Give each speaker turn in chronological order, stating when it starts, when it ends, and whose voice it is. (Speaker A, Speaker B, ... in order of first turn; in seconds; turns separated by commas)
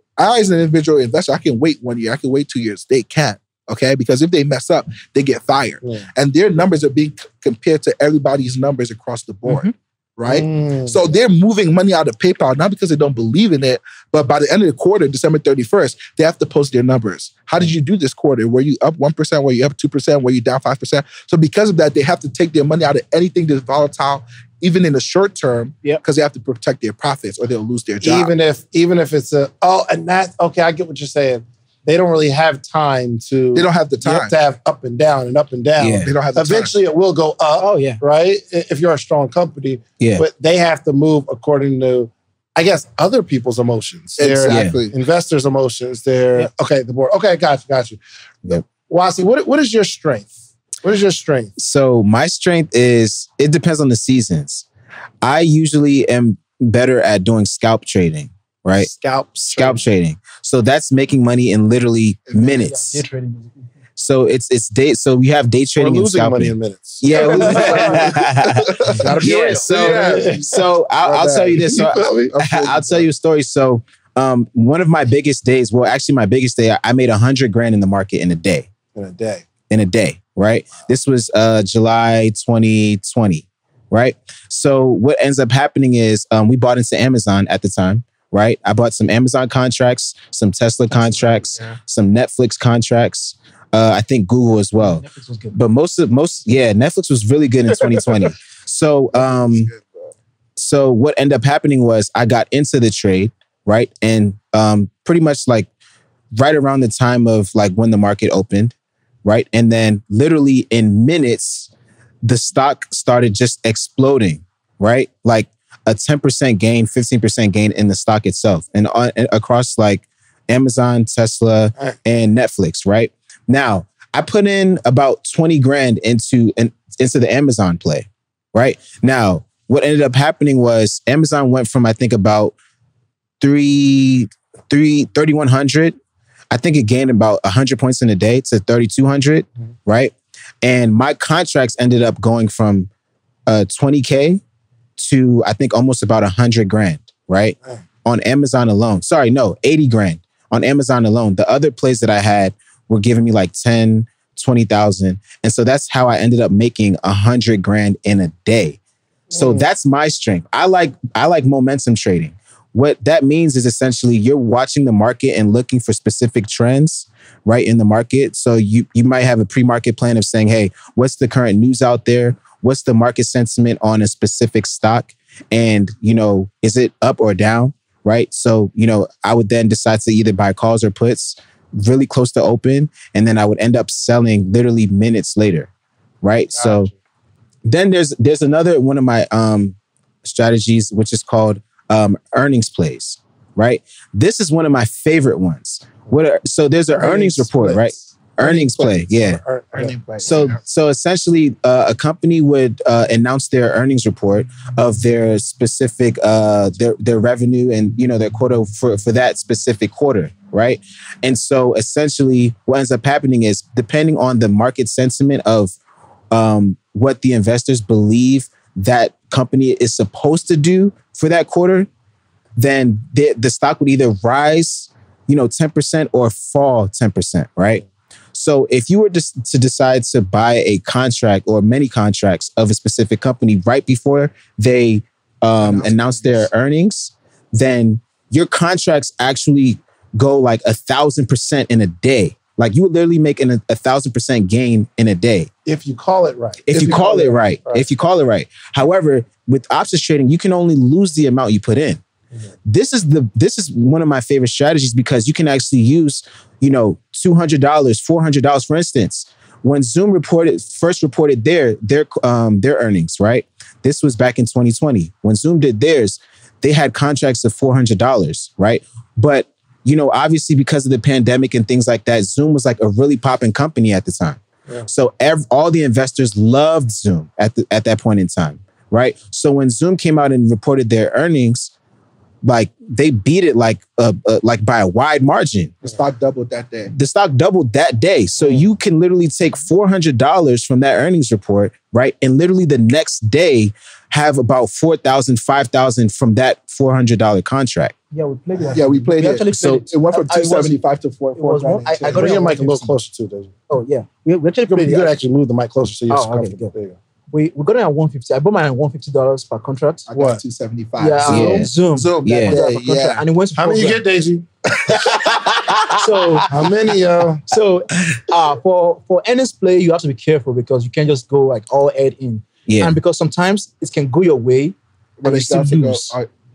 Speaker A: 0.2-28.3, Speaker B: 9.4-9.7, Speaker C: 10.2-11.0, Speaker C: 28.0-48.0, Speaker A: 33.5-34.3, Speaker D: 35.8-36.1, Speaker A: 36.0-36.7, Speaker B: 37.6-38.0, Speaker D: 40.0-40.2, Speaker A: 44.2-44.9, Speaker D: 44.5-44.8, Speaker C: 48.7-51.5, Speaker D: 51.6-54.6, Speaker D: 55.2-58.9, Speaker C: 58.8-59.9, Speaker D: 59.5-63.0, Speaker A: 62.3-62.7, Speaker B: 62.6-63.6, Speaker D: 64.0-78.7, Speaker C: 65.8-68.1, Speaker A: 67.1-73.1, Speaker C: 69.0-70.6, Speaker C: 71.5-72.3, Speaker C: 79.0-79.5, Speaker D: 79.7-99.7, Speaker A: 90.9-91.8, Speaker B: 94.7-95.6, Speaker A: 99.2-99.8, Speaker D: 100.6-105.7, Speaker D: 106.3-111.7, Speaker D: 112.2-132.5, Speaker D: 133.4-135.9, Speaker D: 136.5-142.9, Speaker D: 143.5-144.4, Speaker D: 145.0-158.8, Speaker C: 159.3-159.7, Speaker D: 159.3-185.7, Speaker D: 186.2-186.9, Speaker C: 186.5-186.9, Speaker D: 187.6-199.4, Speaker C: 196.9-198.5, Speaker A: 198.4-199.1, Speaker C: 199.1-199.9, Speaker A: 199.7-200.6, Speaker D: 200.2-215.7, Speaker D: 216.3-221.9, Speaker D: 222.6-245.5, Speaker A: 235.6-236.5, Speaker C: 245.7-247.9, Speaker D: 246.7-252.0, Speaker D: 252.7-281.7, Speaker D: 282.4-285.7, Speaker A: 285.8-286.9, Speaker D: 286.9-297.9, Speaker B: 288.4-288.7, Speaker B: 298.1-300.8, Speaker A: 298.7-302.4, Speaker D: 299.6-299.8, Speaker B: 301.3-302.9, Speaker C: 301.9-303.5, Speaker B: 303.7-305.1, Speaker C: 304.7-306.9, Speaker B: 306.1-306.7, Speaker B: 307.3-310.1, Speaker A: 310.1-313.2, Speaker C: 310.1-310.4, Speaker B: 311.0-314.0, Speaker D: 311.2-311.7, Speaker D: 312.2-312.6, Speaker C: 313.5-314.4, Speaker D: 314.9-316.4, Speaker B: 315.9-316.5, Speaker C: 316.5-317.4, Speaker B: 317.5-326.1, Speaker D: 322.7-322.9, Speaker A: 325.2-326.3